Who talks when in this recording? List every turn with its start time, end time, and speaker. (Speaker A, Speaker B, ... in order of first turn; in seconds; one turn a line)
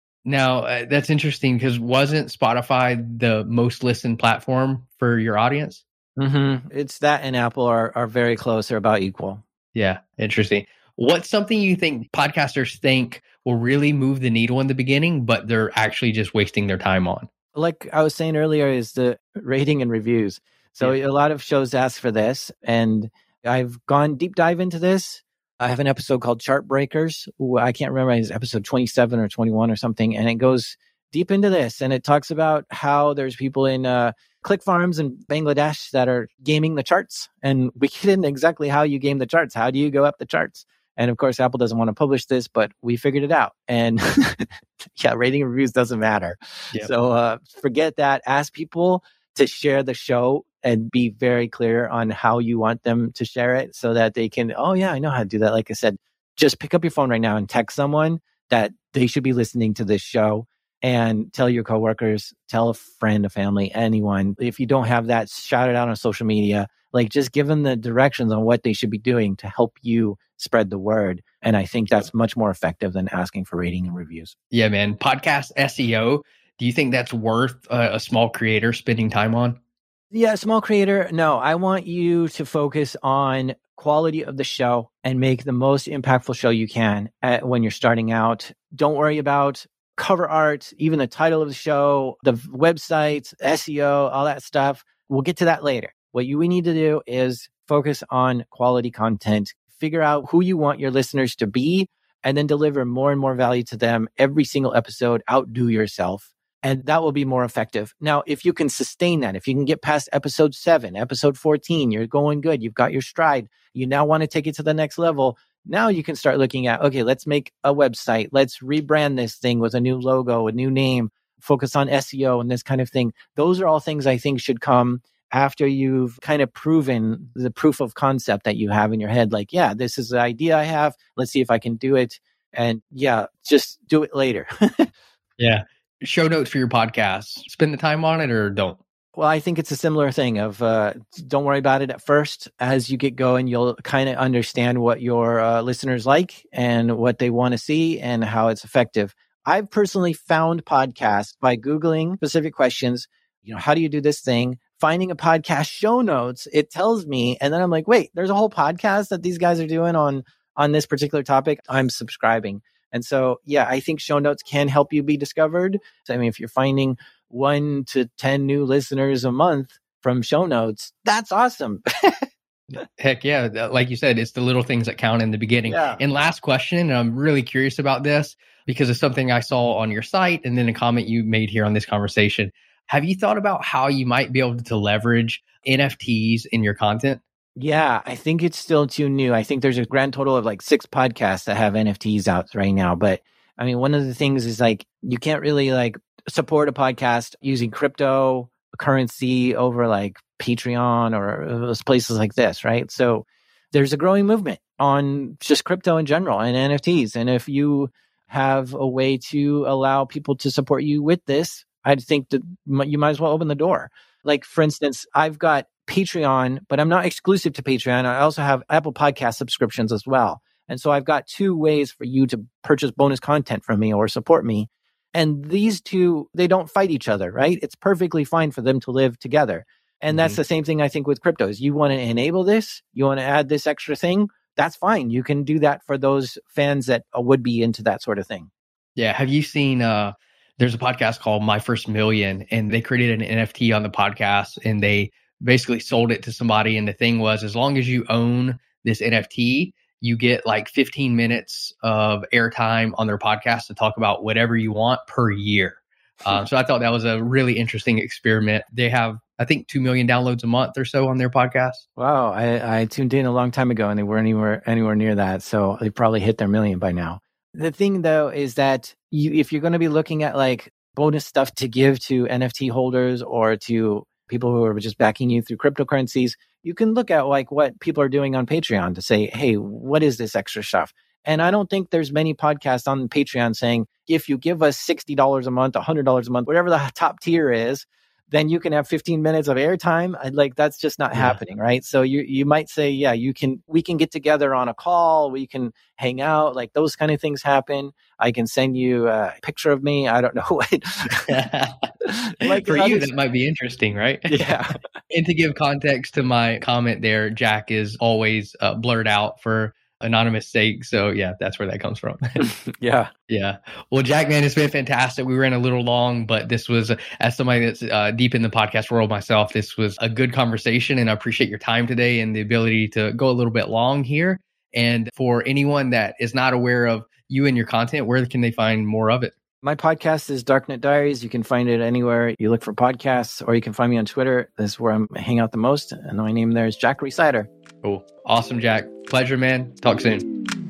Speaker A: 0.2-5.8
Speaker B: 6.2-9.4
Speaker A: 9.7-17.3
Speaker B: 17.5-74.3
Speaker A: 74.5-79.6
Speaker B: 80.1-134.9
Speaker A: 135.4-138.8
Speaker B: 139.1-171.8
Speaker A: 173.0-187.2
Speaker B: 175.6-176.0
Speaker B: 187.6-238.5
Speaker A: 230.1-230.4
Speaker A: 238.9-261.8
Speaker B: 262.0-301.4
Speaker A: 291.1-291.4
Speaker A: 301.3-301.8
Speaker B: 302.4-303.1
Speaker A: 302.5-304.3
Speaker B: 304.3-304.8
Speaker A: 305.1-312.4
Speaker B: 312.4-313.1
Speaker A: 313.3-329.3
Speaker B: 329.6-337.5
Speaker A: 337.8-340.3